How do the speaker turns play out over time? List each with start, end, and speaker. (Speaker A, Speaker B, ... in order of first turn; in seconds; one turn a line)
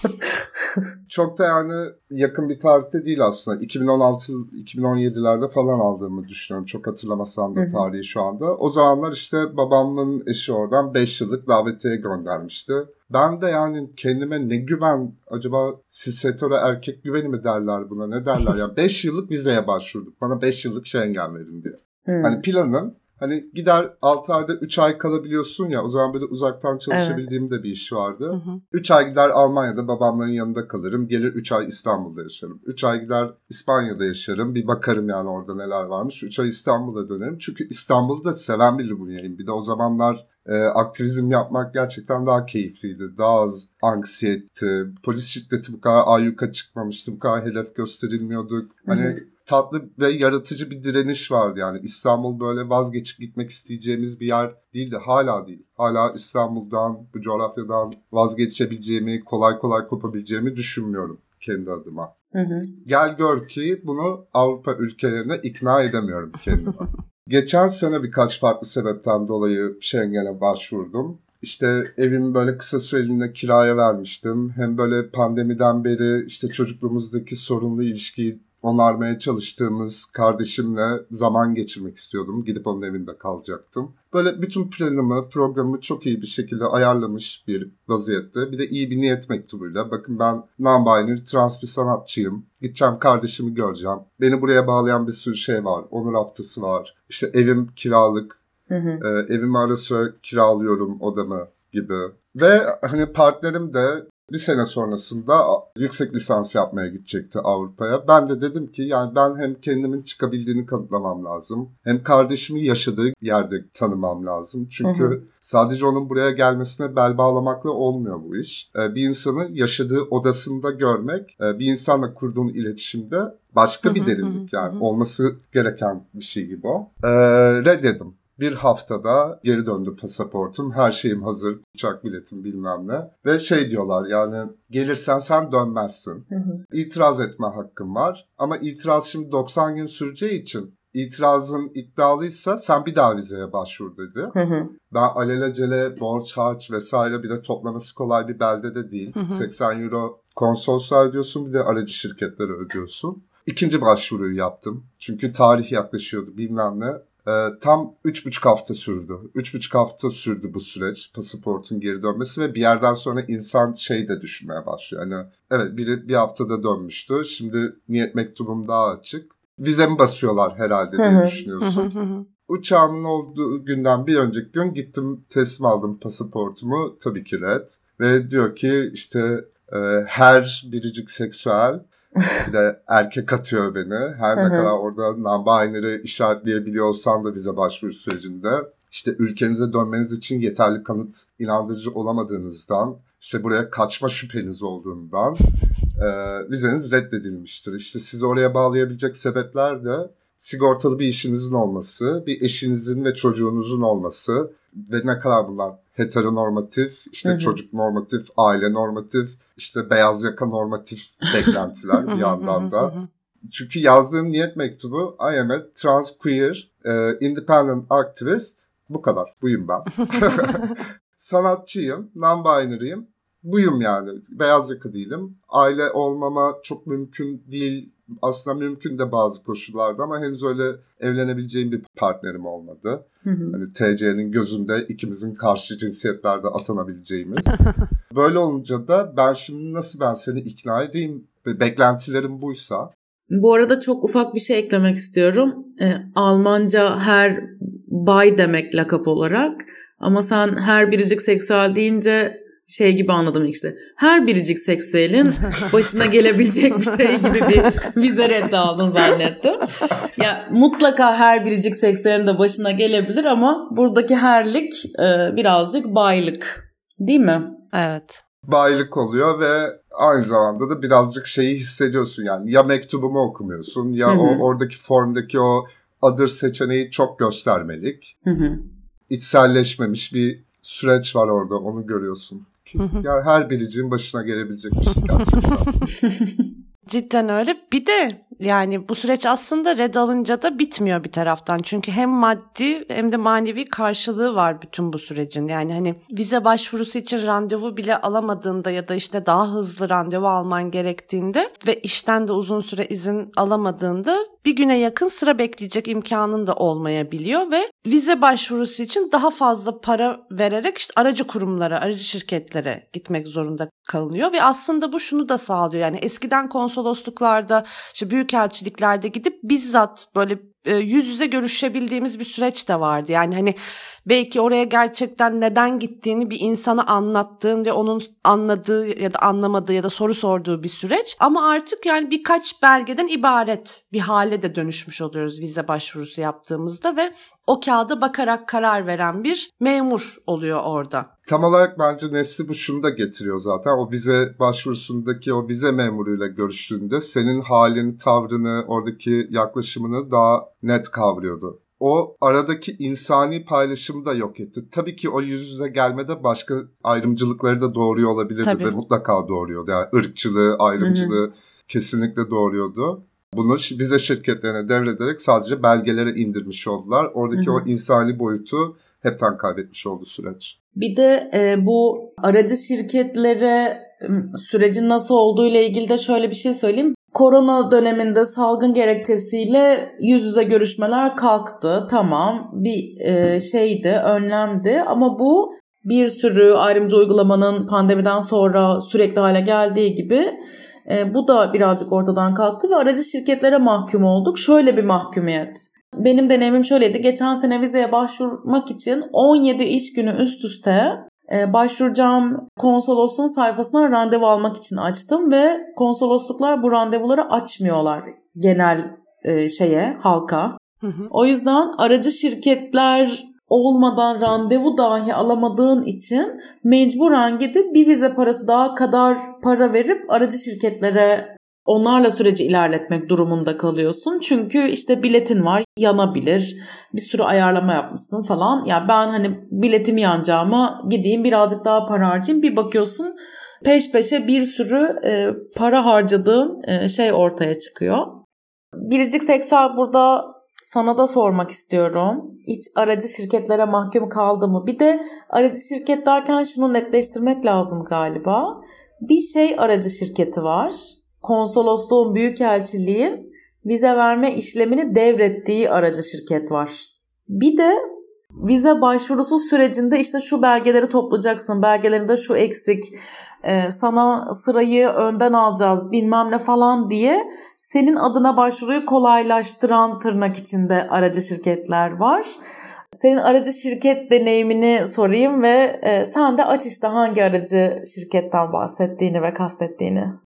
Speaker A: 1.1-62.1
Speaker B: 7.5-7.8
Speaker B: 22.1-22.4
Speaker B: 26.9-27.4
Speaker C: 28.3-28.6
Speaker B: 48.9-49.2
Speaker B: 62.3-62.7
Speaker A: 62.9-98.4
Speaker B: 98.7-99.0
Speaker A: 99.0-144.3
Speaker B: 114.8-115.2
Speaker C: 123.8-124.8
Speaker B: 136.3-136.6
Speaker B: 144.3-144.7
Speaker A: 144.9-171.9
Speaker C: 149.2-149.5
Speaker B: 171.0-171.4
Speaker C: 171.6-172.2
Speaker A: 172.5-181.8
Speaker A: 182.4-212.9
Speaker B: 184.4-184.7
Speaker B: 207.2-207.6
Speaker C: 212.1-213.1
Speaker A: 213.5-242.9
Speaker B: 233.2-233.6
Speaker B: 243.3-267.5
Speaker C: 267.7-268.2
Speaker A: 268.4-278.1
Speaker B: 274.1-274.4
Speaker B: 278.2-278.6
Speaker A: 279.1-285.7
Speaker C: 282.8-283.0
Speaker C: 285.3-285.7
Speaker B: 286.1-286.4
Speaker C: 286.9-341.1
Speaker A: 341.3-370.5
Speaker C: 358.4-358.7
Speaker B: 360.8-361.2
Speaker B: 367.3-367.6
Speaker B: 370.8-390.3
Speaker B: 390.9-410.6
Speaker C: 410.8-411.1
Speaker B: 411.1-438.2
Speaker B: 438.9-457.8
Speaker B: 458.4-472.3
Speaker B: 472.9-480.2